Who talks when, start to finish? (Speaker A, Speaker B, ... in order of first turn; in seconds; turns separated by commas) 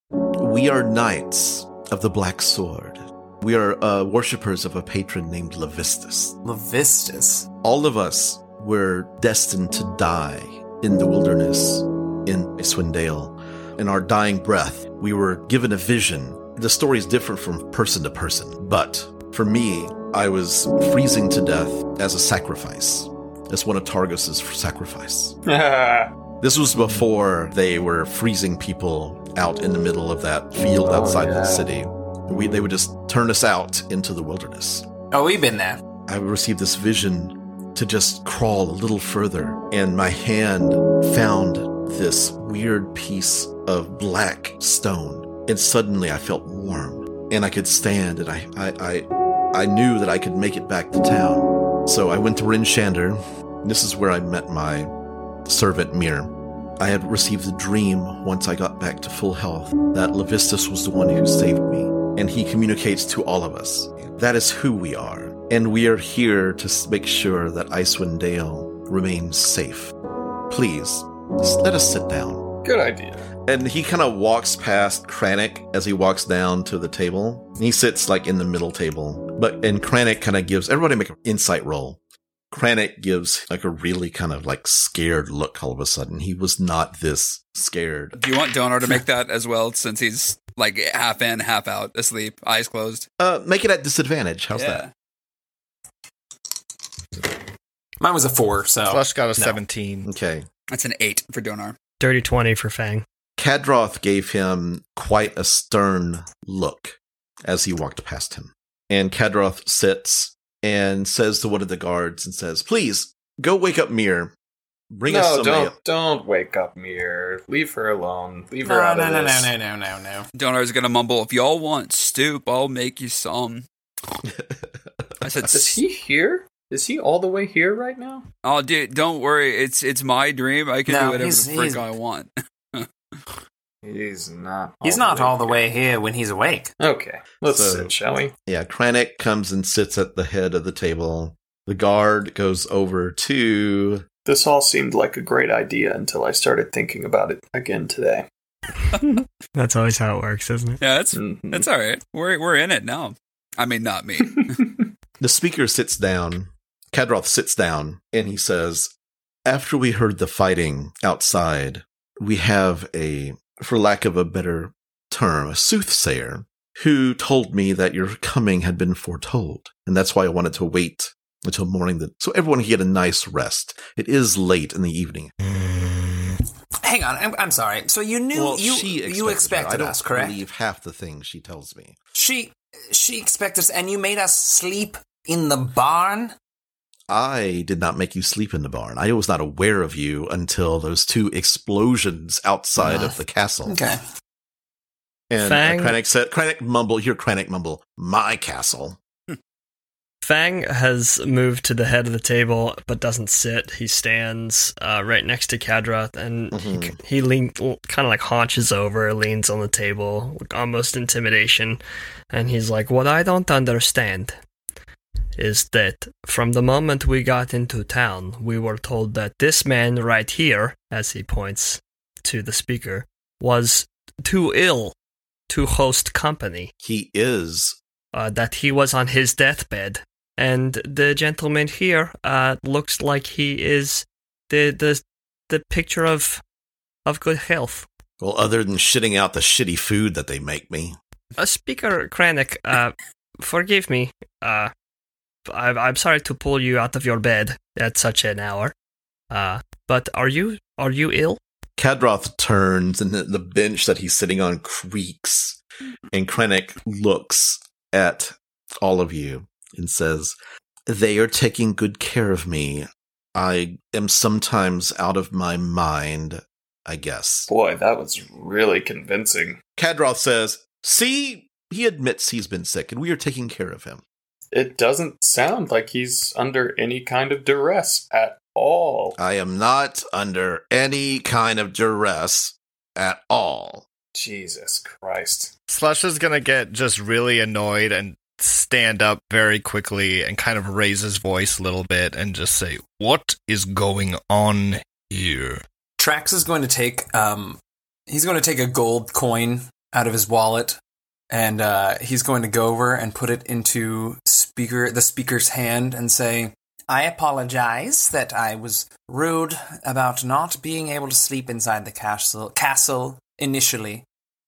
Speaker A: 0.4-6.4, Speaker B: 6.4-7.5, Speaker A: 7.6-25.4, Speaker C: 25.4-26.2, Speaker A: 26.4-34.9, Speaker C: 30.8-31.7, Speaker B: 35.1-35.8, Speaker A: 36.1-54.9, Speaker A: 55.5-69.9, Speaker A: 70.5-72.5, Speaker C: 72.6-73.3, Speaker A: 73.4-82.0, Speaker A: 82.5-88.2, Speaker D: 88.2-93.1, Speaker A: 93.2-94.8, Speaker D: 94.5-94.9, Speaker B: 98.0-99.6, Speaker E: 98.9-100.1, Speaker A: 100.0-100.5, Speaker D: 100.7-101.8, Speaker F: 102.0-103.0, Speaker A: 103.4-114.3, Speaker A: 114.9-115.7, Speaker C: 115.1-119.5, Speaker B: 118.6-120.3, Speaker D: 120.3-123.7, Speaker A: 124.2-124.5, Speaker D: 125.2-125.8, Speaker C: 125.5-128.3, Speaker D: 128.4-132.9, Speaker B: 130.9-131.8, Speaker C: 133.8-135.6, Speaker B: 134.8-136.7, Speaker C: 136.8-138.3, Speaker A: 137.4-137.9, Speaker A: 138.4-144.0, Speaker C: 144.2-148.3, Speaker F: 149.5-150.8, Speaker D: 150.8-154.7, Speaker C: 151.1-151.7, Speaker A: 155.2-158.9, Speaker A: 159.4-175.3, Speaker E: 175.8-176.3, Speaker B: 176.8-180.4, Speaker A: 178.3-181.9, Speaker B: 182.1-186.3, Speaker A: 187.1-193.8, Speaker B: 192.8-193.1, Speaker B: 193.7-194.0, Speaker A: 195.3-199.0, Speaker F: 195.4-196.0, Speaker F: 200.2-211.8, Speaker A: 206.5-207.0, Speaker F: 212.3-214.4, Speaker F: 215.4-224.9, Speaker F: 225.5-226.7, Speaker A: 226.8-227.8, Speaker F: 228.1-236.4, Speaker F: 237.0-237.9, Speaker A: 238.2-241.0, Speaker F: 241.4-244.7, Speaker F: 245.4-248.7, Speaker F: 249.3-251.4, Speaker A: 251.8-255.6, Speaker A: 256.1-260.4, Speaker A: 260.9-267.5, Speaker C: 267.5-269.6, Speaker A: 269.8-274.0, Speaker C: 274.5-279.2, Speaker A: 279.2-283.8, Speaker C: 284.1-285.5, Speaker E: 285.7-295.6, Speaker B: 296.0-300.8, Speaker B: 301.3-314.0